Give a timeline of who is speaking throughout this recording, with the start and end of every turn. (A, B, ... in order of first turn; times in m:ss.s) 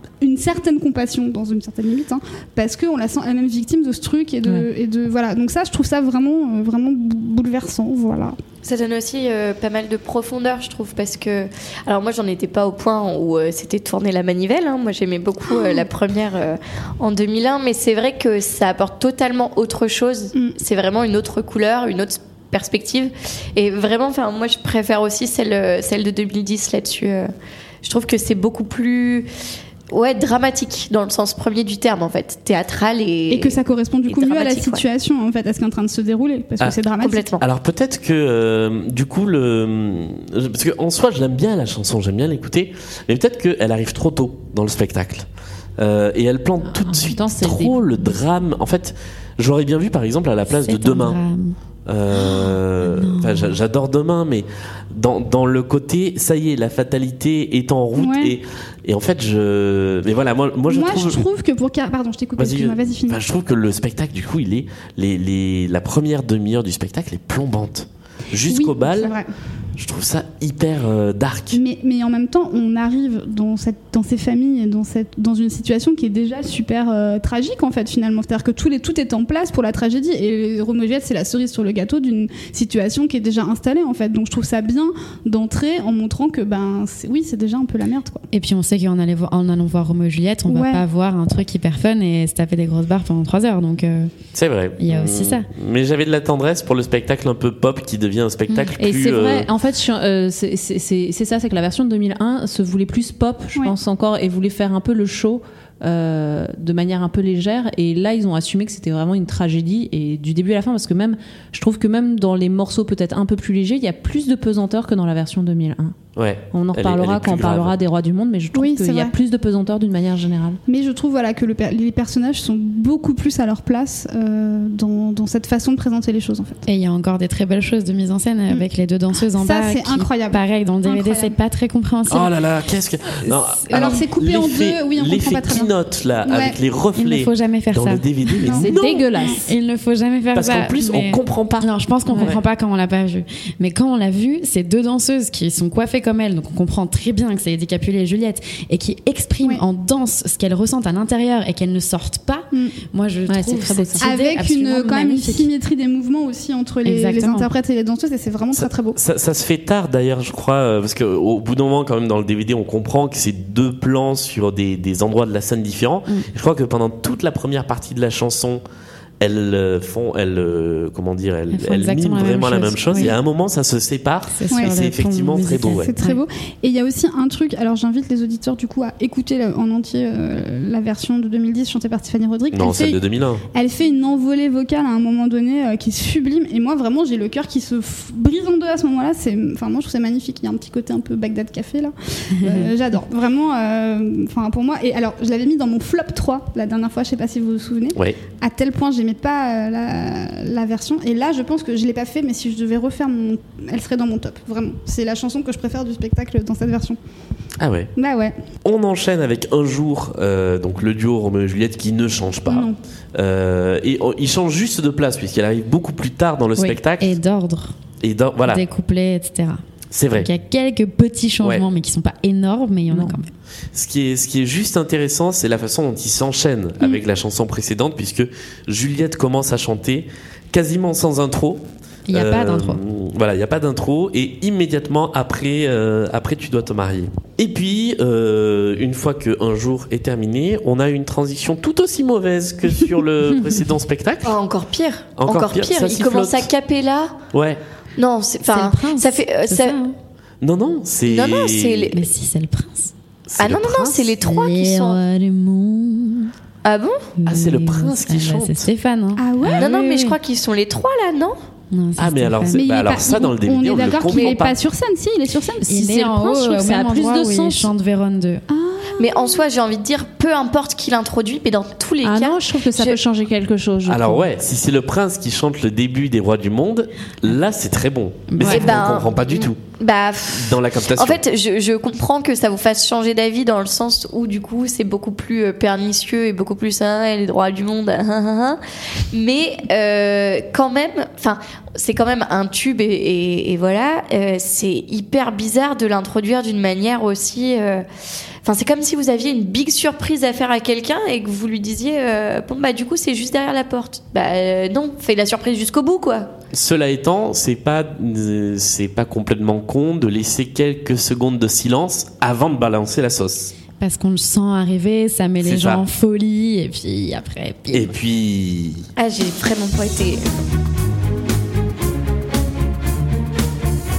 0:00.2-0:08.4 A
0:08.6-0:27.3 B
0:27.8-0:29.3 B
0:29.9-0:34.8 B
0:33.3-0:37.3 A
0:37.0-0:37.4 B
0:37.4-0:51.2 C
0:46.7-0:47.9 D
0:50.5-0:51.6 E
0:51.8-1:01.2 C
0:52.1-0:53.6 E
0:58.0-0:58.3 A
1:00.7-1:03.2 A
1:02.4-1:09.2 C
1:08.5-1:09.3 A
1:09.8-1:11.6 C
1:11.5-1:28.2 A
1:28.3-1:34.1 E
1:30.5-1:30.8 A
1:34.3-1:39.5 C
1:34.8-1:35.5 E
1:38.8-1:56.0 D
1:56.2-1:57.8 C
1:56.5-2:00.6 D
1:58.5-1:59.1 A
2:00.7-2:06.6 A
2:06.7-2:12.4 E
2:09.3-2:11.3 A
2:12.1-2:19.1 C
2:13.2-2:14.0 E
2:13.7-2:15.7 A
2:16.2-2:16.6 A
2:17.0-2:18.7 E
2:18.6-2:19.4 D
2:19.4-2:35.5 E
2:20.3-2:22.4 C
2:22.1-2:22.4 D
2:33.3-2:34.0 D
2:34.0-2:39.0 A
2:36.8-2:37.5 E
2:38.5-2:48.6 C
2:49.2-2:55.9 C
2:51.5-2:53.1 E
2:54.3-2:56.2 E
2:55.7-3:03.0 A
3:02.5-3:03.4 C
3:03.5-3:27.0 A
3:12.4-3:12.7 E
3:17.9-3:18.2 C
3:27.6-3:27.9 C
3:28.0-3:28.4 A
3:28.6-3:37.1 C
3:32.5-3:32.8 A
3:37.0-3:37.8 E
3:38.0-3:38.6 C
3:38.4-3:39.6 E
3:39.9-3:40.3 C
3:40.1-3:43.3 E
3:42.9-3:43.2 D
3:43.7-4:04.3 C
3:52.1-3:52.8 E
4:04.2-4:07.2 B
4:05.2-4:06.5 C
4:07.3-4:07.6 C
4:08.0-4:09.8 B
4:08.5-4:09.9 E
4:10.4-4:11.9 C
4:11.1-4:12.0 B
4:11.9-4:12.9 E
4:13.3-4:14.1 C
4:13.4-4:15.0 B
4:14.2-4:16.3 E
4:16.6-4:17.1 B
4:17.2-4:20.2 E
4:17.2-4:18.7 C
4:19.2-4:19.7 A
4:19.5-4:19.7 D
4:19.6-4:21.4 B
4:21.7-4:22.6 E
4:22.0-4:24.6 C
4:22.5-4:25.7 A
4:25.6-4:27.7 D
4:25.7-4:28.4 E
4:28.5-4:29.3 A
4:29.0-4:33.0 B
4:32.0-4:34.2 D
4:33.8-4:39.6 C
4:38.3-4:38.8 E
4:38.4-4:48.6 B
4:40.3-4:41.2 C
4:49.1-4:57.8 B
4:58.4-5:06.3 B
5:06.5-5:13.5 C
5:13.8-5:17.9 E
5:15.4-5:15.8 C
5:17.7-5:18.9 C
5:19.0-5:20.2 B